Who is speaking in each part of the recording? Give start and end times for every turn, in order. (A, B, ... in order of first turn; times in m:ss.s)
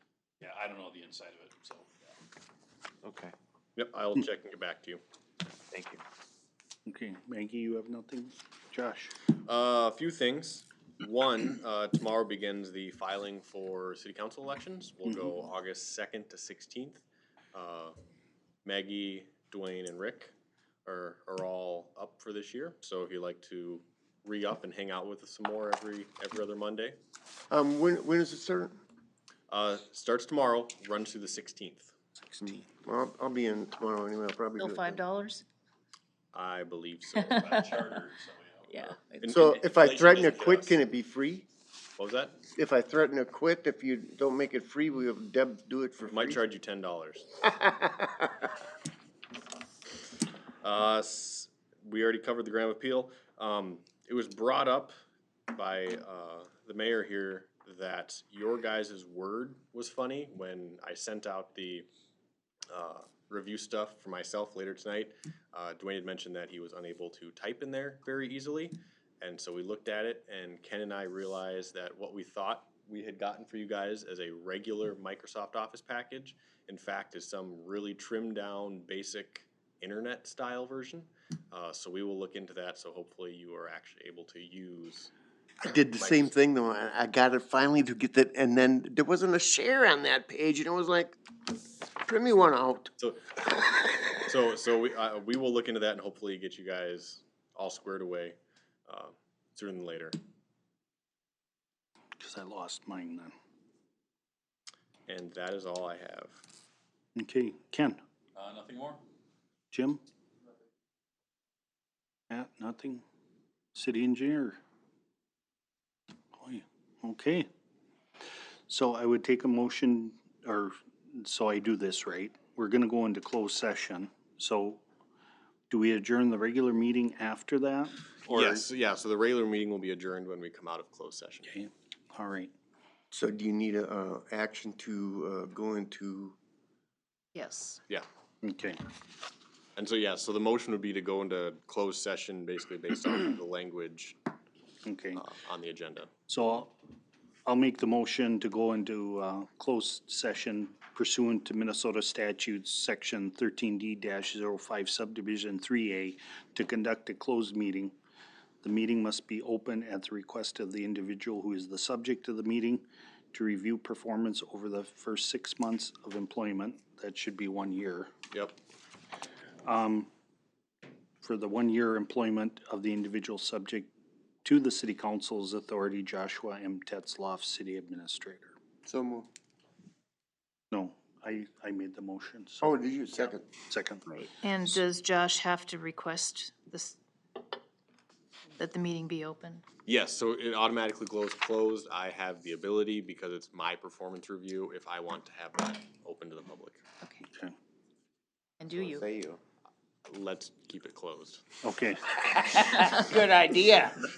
0:00.4-0:02.1 A
0:03.0-0:03.3 B
0:03.8-0:05.0 C
0:05.7-0:06.0 B
0:06.9-0:09.1 D
0:09.4-0:18.0 C
0:18.6-0:20.3 C
0:20.8-0:27.0 C
0:27.5-0:28.8 E
0:29.5-0:31.9 C
0:32.4-0:35.0 E
0:34.6-0:35.4 F
0:36.3-0:37.5 C
0:37.2-0:39.0 A
0:38.7-0:39.0 F
0:39.2-0:40.8 C
0:39.3-0:41.4 E
0:42.0-0:42.4 C
0:42.5-0:46.4 E
0:46.1-0:47.3 C
0:47.4-0:48.3 E
0:50.6-0:54.9 C
0:55.5-1:01.9 C
1:02.7-1:25.1 C
1:25.6-1:31.2 E
1:25.9-1:26.3 C
1:32.0-1:32.9 E
1:33.0-1:33.4 C
1:34.1-1:40.2 C
1:42.2-1:43.3 D
1:45.1-1:46.4 C
1:47.2-1:48.0 D
1:48.3-1:49.0 A
1:49.7-1:50.0 D
1:52.3-1:53.0 D
1:53.7-1:54.6 D
1:56.4-1:57.5 D
1:58.7-2:04.8 D
2:05.7-2:08.6 D
2:08.3-2:11.6 C
2:11.5-2:12.5 D
2:13.1-2:16.4 E
2:17.3-2:17.8 F
2:18.4-2:18.8 D
2:19.8-2:24.2 C
2:24.8-2:25.2 D
2:25.1-2:26.1 C
2:26.3-2:26.7 D
2:27.4-2:37.9 D
2:38.6-2:48.1 D
2:49.6-2:50.1 D
2:51.2-2:53.9 D
2:54.4-2:58.5 D
2:58.8-2:59.3 E
3:00.7-3:02.7 D
3:02.6-3:03.5 E
3:03.7-3:04.0 D
3:04.4-3:07.0 F
3:08.6-3:09.6 F
3:09.8-3:16.8 C
3:17.0-3:17.3 F
3:18.6-3:19.0 F
3:18.8-3:19.4 E
3:20.1-3:21.4 C
3:21.6-3:22.2 D
3:22.4-3:24.0 B